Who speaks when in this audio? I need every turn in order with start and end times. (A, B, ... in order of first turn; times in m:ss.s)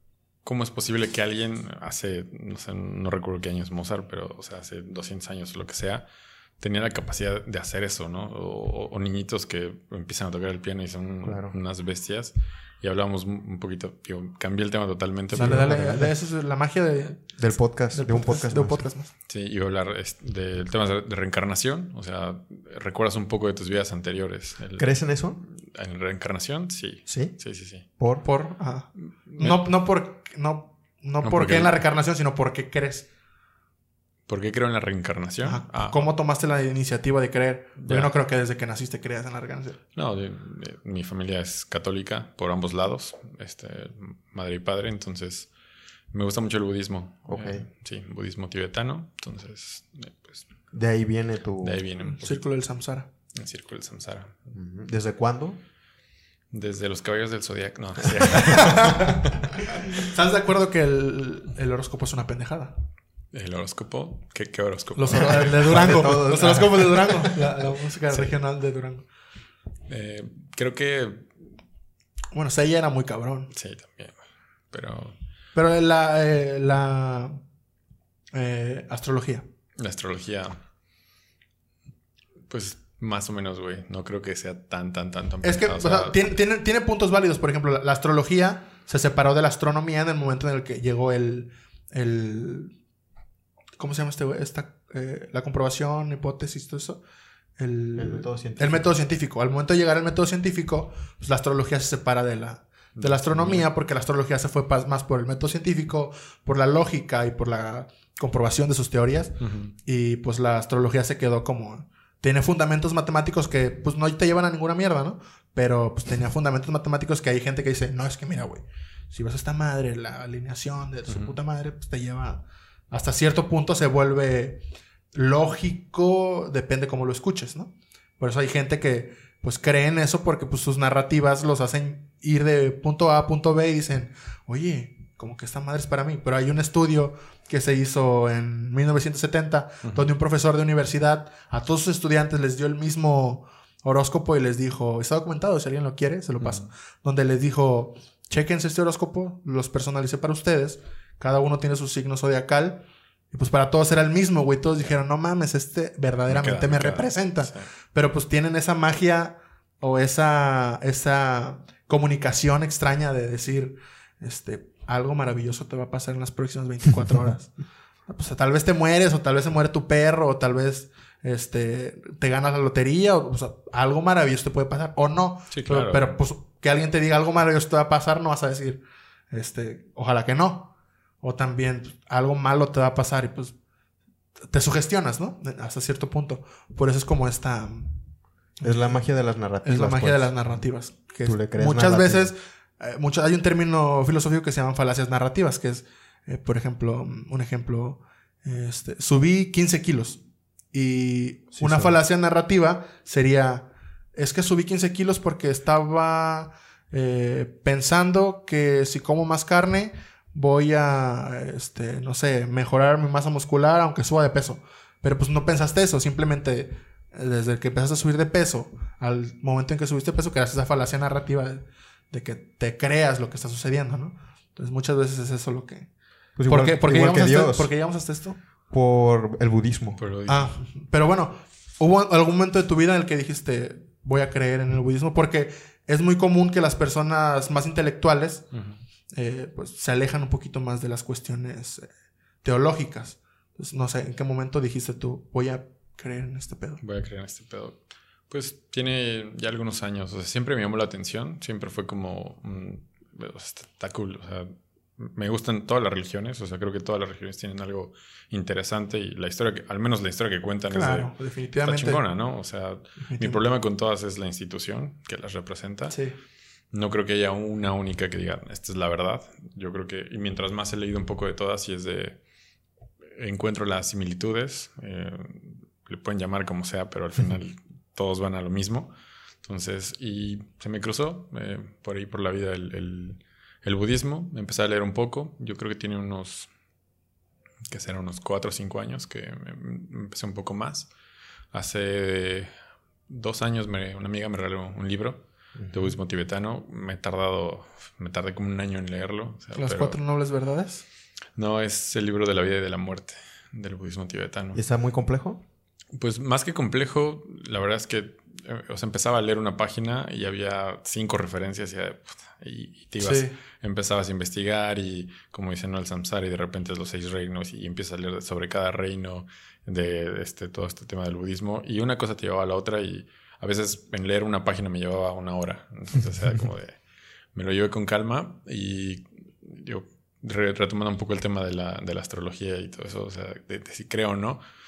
0:00.4-0:06.1 A
0:06.6-0:15.8 A
0:11.2-0:11.5 B
0:15.3-0:16.1 B
0:15.3-0:17.4 C
0:17.4-0:18.9 B
0:17.9-0:19.1 C
0:19.3-0:27.9 A
0:24.8-0:25.4 B
0:27.1-0:27.4 B
0:28.0-0:28.2 B
0:28.2-0:33.1 C
0:29.3-0:29.6 A
0:31.2-0:31.8 A
0:34.3-0:36.1 A
0:35.4-0:39.8 C
0:37.8-0:38.1 A
0:40.0-0:45.5 A
0:46.1-0:50.4 A
0:47.3-0:47.6 B
0:50.7-0:51.8 B
0:51.6-0:52.4 A
0:52.0-0:53.1 C
0:53.3-0:54.4 A
0:54.5-0:55.6 B
0:56.5-0:59.5 A
0:58.6-0:59.2 C
0:59.9-1:02.7 C
1:03.3-1:06.2 A
1:05.0-1:09.0 C
1:05.2-1:07.3 B
1:09.9-1:11.3 A
1:12.3-1:13.5 C
1:13.5-1:14.2 A
1:14.7-1:15.2 A
1:15.6-1:17.4 C
1:18.3-1:19.4 C
1:19.8-1:20.6 A
1:22.5-1:26.2 A
1:25.4-1:32.7 C
1:33.8-1:37.0 C
1:37.6-1:49.3 C
1:38.0-1:38.9 B
1:43.0-1:43.7 A
1:49.4-1:49.7 A
1:49.8-2:04.6 C
2:01.1-2:01.4 A
2:05.1-2:47.5 C
2:19.8-2:20.1 A
2:26.4-2:26.7 A
2:36.3-2:37.7 A
2:48.1-3:03.6 C
2:55.5-2:56.1 A
3:04.5-3:08.0 C
3:08.6-3:09.0 C
3:08.6-3:10.4 B
3:09.6-3:20.2 C
3:11.2-3:12.3 B
3:20.7-3:45.9 C
3:21.6-3:22.0 B
3:46.4-3:47.7 B
3:46.5-3:48.4 C
3:48.7-3:50.0 B
3:50.0-3:50.6 A
3:50.3-3:58.4 C
3:58.5-3:58.8 A
3:59.1-4:01.9 C
4:02.4-4:06.8 C
4:06.8-4:26.0 A
4:20.7-4:22.0 C
4:23.0-4:23.4 C
4:25.9-4:26.2 C
4:26.7-4:32.2 A
4:33.1-4:38.9 A
4:39.4-4:46.5 A
4:47.7-4:50.9 A
4:51.5-4:52.5 A
4:53.1-5:00.0 A
4:55.6-4:56.0 B
4:59.6-5:00.8 C
5:01.4-5:04.6 A
5:04.6-5:05.4 B
5:05.9-5:26.8 A
5:13.0-5:13.4 C
5:27.3-5:34.4 A